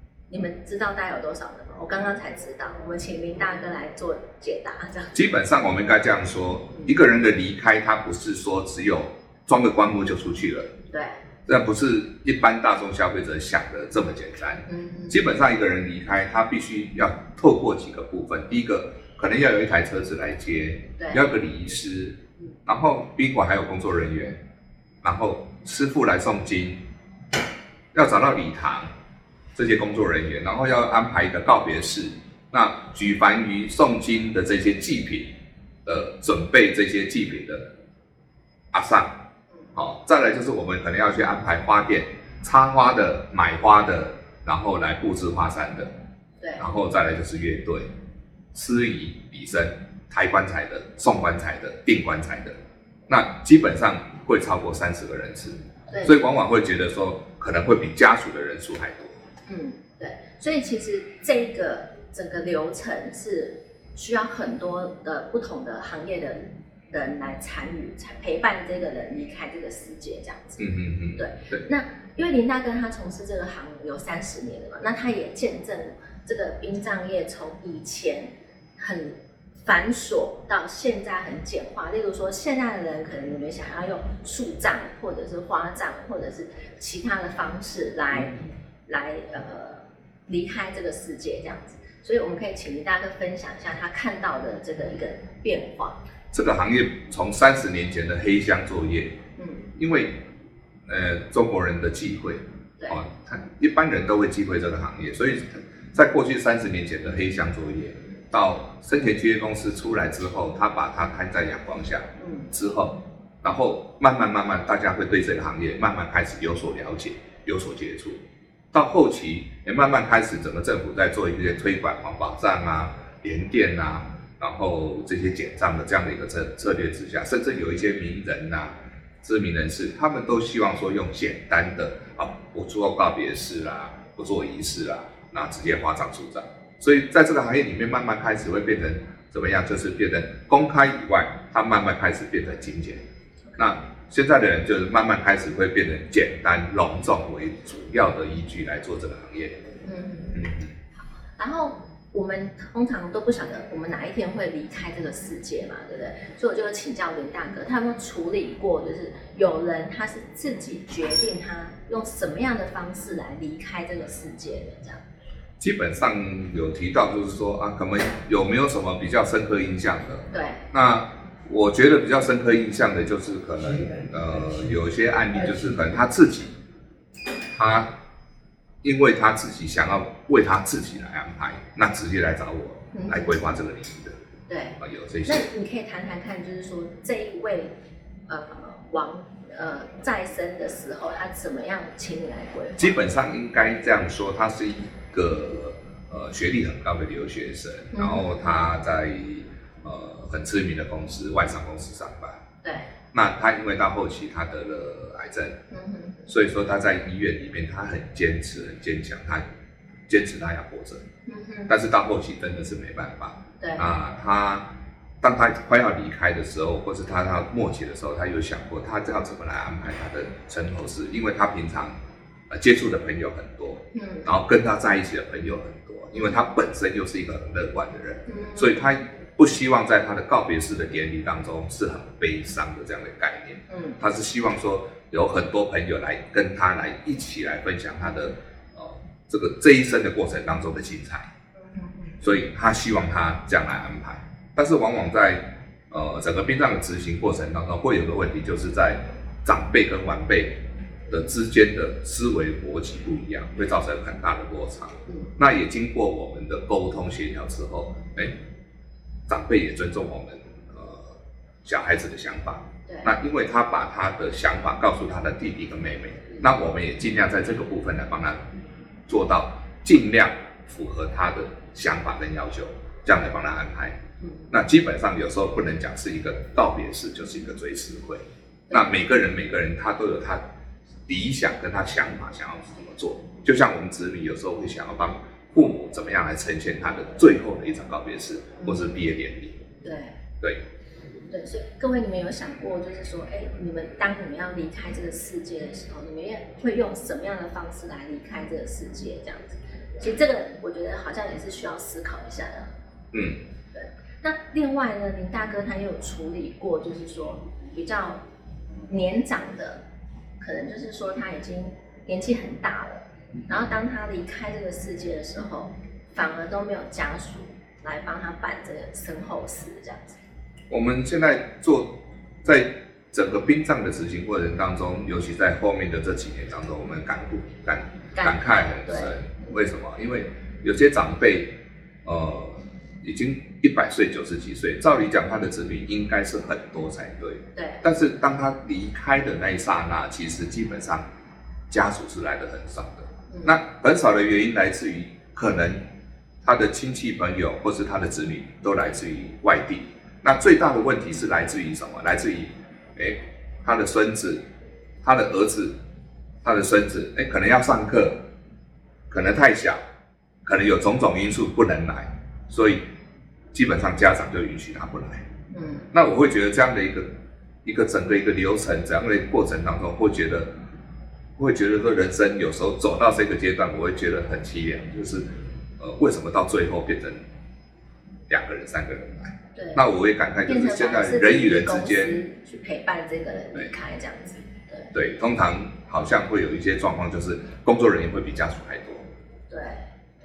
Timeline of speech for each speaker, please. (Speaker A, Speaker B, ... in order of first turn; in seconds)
Speaker A: 0.3-5.1, 10.9-11.2, 14.7-15.2, 55.9-56.2, 59.5-70.6, 71.2-88.3, 88.9-96.0, 99.4-99.7, 112.2-112.5, 149.8-150.3, 151.4-165.0, 170.3-170.7, 182.9-183.6, 184.5-187.7, 188.3-193.0, 197.9-198.6, 202.6-202.9, 205.7-206.2, 211.3-211.7, 213.6-213.9, 223.9-224.3, 226.1-226.4, 228.3-228.7, 233.7-234.0, 241.6-242.2, 262.9-263.1, 278.7-278.9, 289.8-290.1, 291.3-302.7, 303.7-308.2, 308.9-309.8, 310.4-320.2, 328.1-329.1, 337.5-337.8, 343.3-343.6, 365.5-365.9, 379.5-379.8, 380.4-384.9, 389.5-389.8
Speaker B: 5.1-10.7, 11.5-24.4, 25.0-26.8, 27.9-28.9, 29.5-35.3, 35.9-37.6, 38.7-39.1, 39.8-45.9, 46.6-47.9, 48.5-52.5, 53.1-59.2, 70.6-71.7, 96.3-99.1, 99.8-100.1, 100.9-118.2, 118.7-143.0, 143.6-149.7, 150.3-150.7, 165.6-176.5, 177.6-177.9, 178.8-184.1, 184.8-185.4, 192.8-202.4, 203.1-205.6, 206.3-209.4, 210.1-211.0, 211.7-214.7, 215.2-221.9, 222.5-241.3, 242.2-250.6, 251.1-258.3, 259.3-261.1, 261.6-268.4, 269.1-273.9, 274.5-280.4, 281.1-289.6, 303.1-303.4, 320.7-331.5, 332.0-341.0, 341.7-345.8, 346.4-354.4, 355.0-355.7, 356.4-358.2, 359.1-359.8, 360.4-362.8, 363.5-365.2, 365.9-367.1, 367.6-370.5, 371.4-375.2, 375.8-377.2, 378.3-382.2, 384.9-389.0